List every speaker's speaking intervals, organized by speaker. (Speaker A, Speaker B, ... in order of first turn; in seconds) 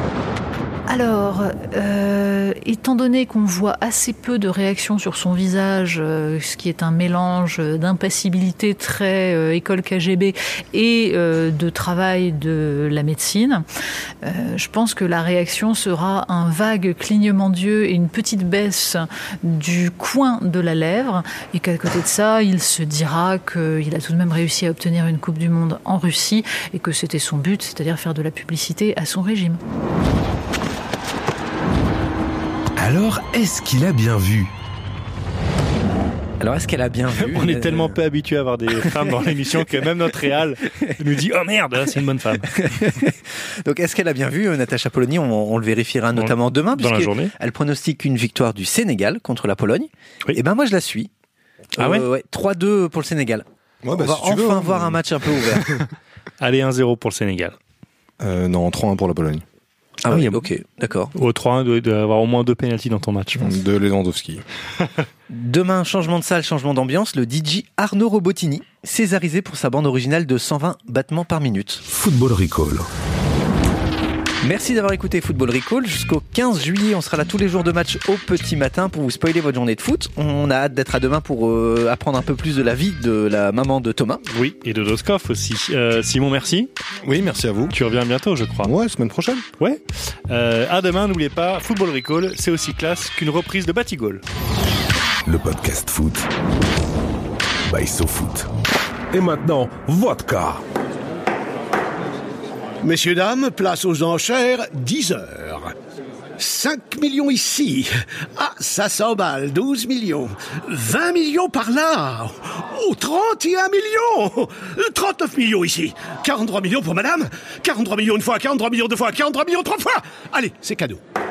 Speaker A: 0.9-13.6, 14.2-29.6
Speaker B: 32.8-34.5, 71.9-72.9, 95.2-96.3, 97.7-98.5, 99.1-100.6
Speaker C: 36.4-38.0, 42.6-51.1, 51.7-55.8, 60.0-61.1, 65.3-71.8, 74.4-84.2
Speaker D: 37.2-42.6, 46.1-47.3, 51.8-52.0, 56.4-57.5, 60.1-60.4, 61.1-63.5, 84.3-86.7, 87.7-88.7, 89.6-94.2
Speaker E: 53.8-55.0, 58.2-59.4, 63.4-64.4, 87.0-87.7, 88.6-89.4
Speaker F: 102.8-105.7, 106.4-121.0